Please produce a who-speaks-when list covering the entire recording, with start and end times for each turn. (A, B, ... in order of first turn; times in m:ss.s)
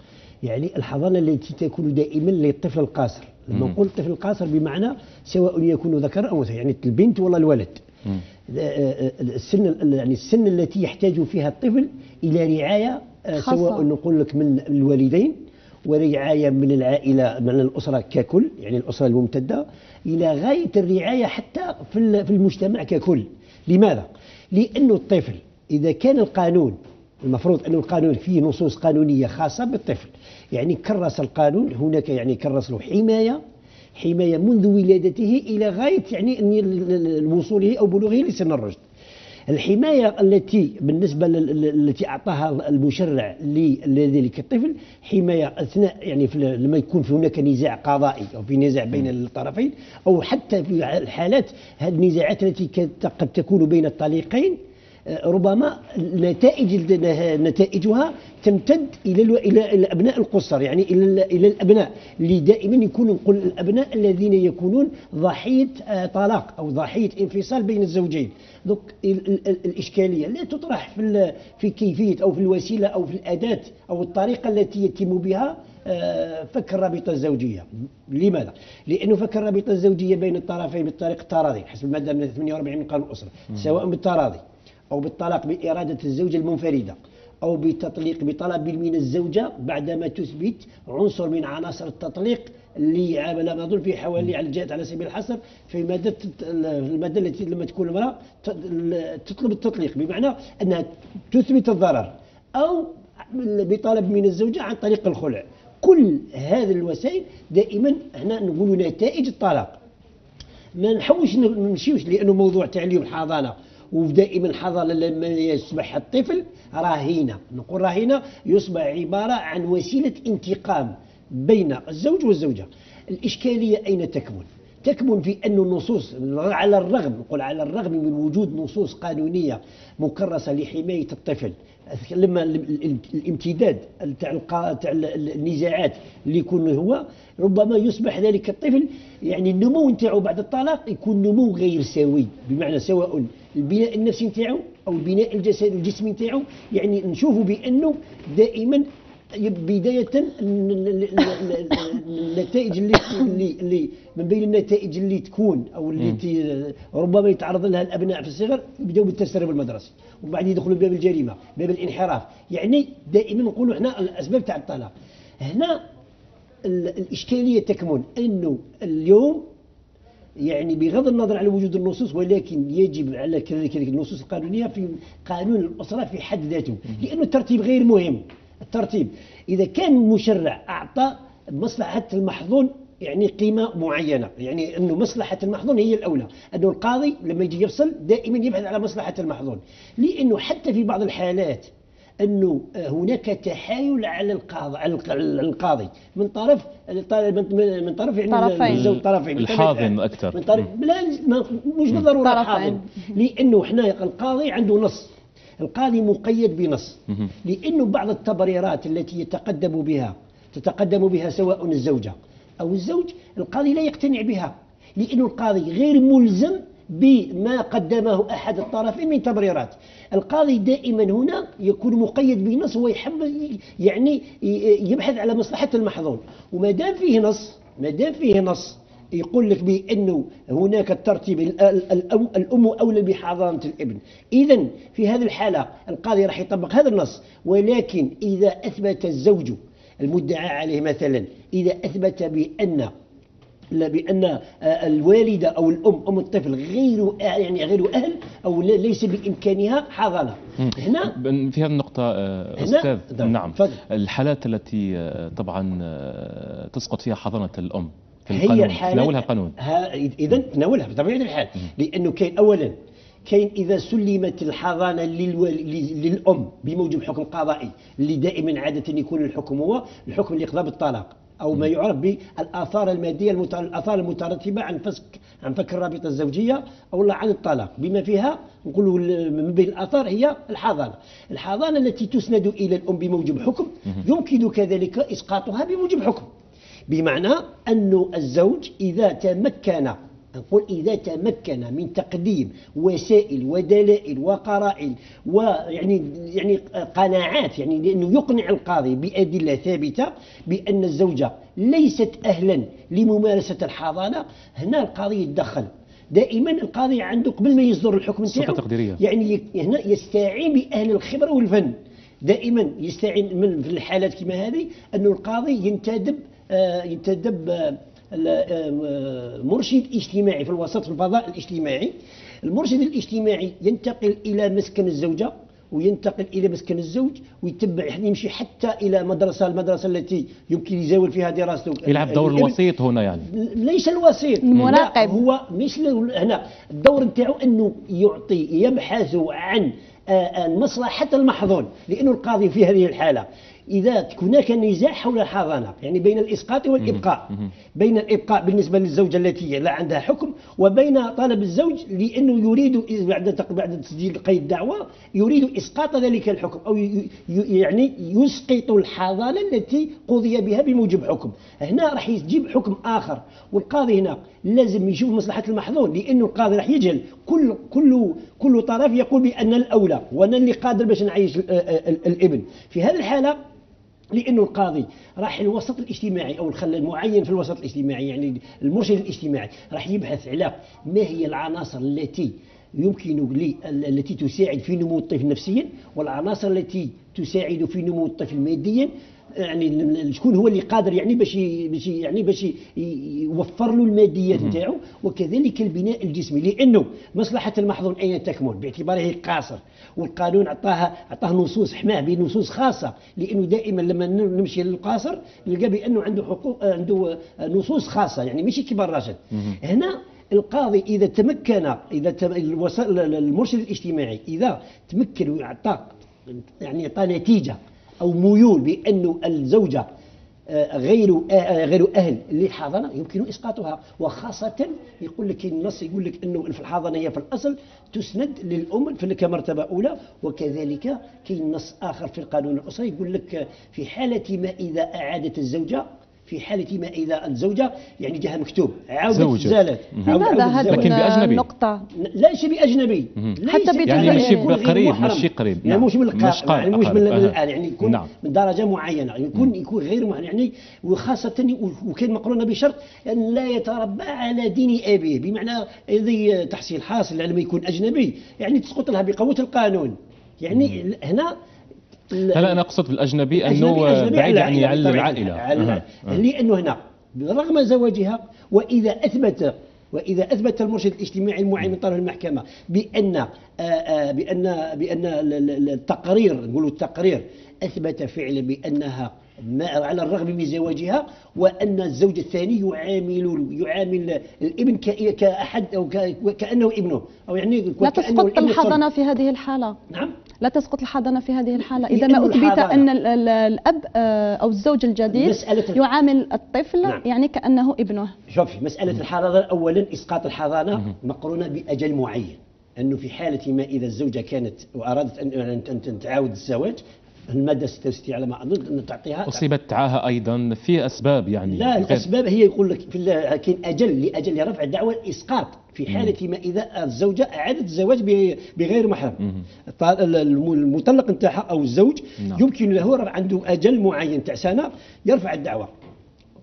0:00.4-0:07.8 A
0:08.5-0:33.4 A
0:13.3-0:13.8 B
0:34.0-0:38.8 A
0:39.5-0:54.6 A
0:55.1-1:49.8 A
1:50.7-2:45.8 A
2:46.6-2:49.4 A
2:50.4-3:11.7 A
3:12.2-4:02.9 A
3:18.3-3:18.9 B
3:18.7-3:20.6 C
3:22.2-3:23.1 B
4:03.7-4:11.2 A
4:10.6-4:19.6 C
4:12.6-4:13.8 A
4:18.3-4:22.8 A
4:23.2-4:46.3 A
4:46.9-5:32.6 A
5:08.3-5:09.0 C
5:31.8-5:33.3 C
5:33.3-6:13.4 A
5:34.4-5:35.2 B
6:14.1-6:59.9 A
7:00.5-7:21.0 A
7:19.1-7:21.4 C
7:20.1-7:21.8 B
7:21.9-7:41.3 A
7:23.4-7:24.6 B
7:23.9-7:28.1 C
7:42.1-7:42.6 A
7:42.2-7:46.2 C
7:43.4-8:08.8 A
8:07.8-8:09.8 B
8:09.9-8:10.1 A
8:10.4-8:18.1 B
8:11.8-8:12.9 A
8:15.1-8:15.8 A
8:18.3-8:29.5 A
8:29.2-8:32.1 C
8:31.5-8:45.7 A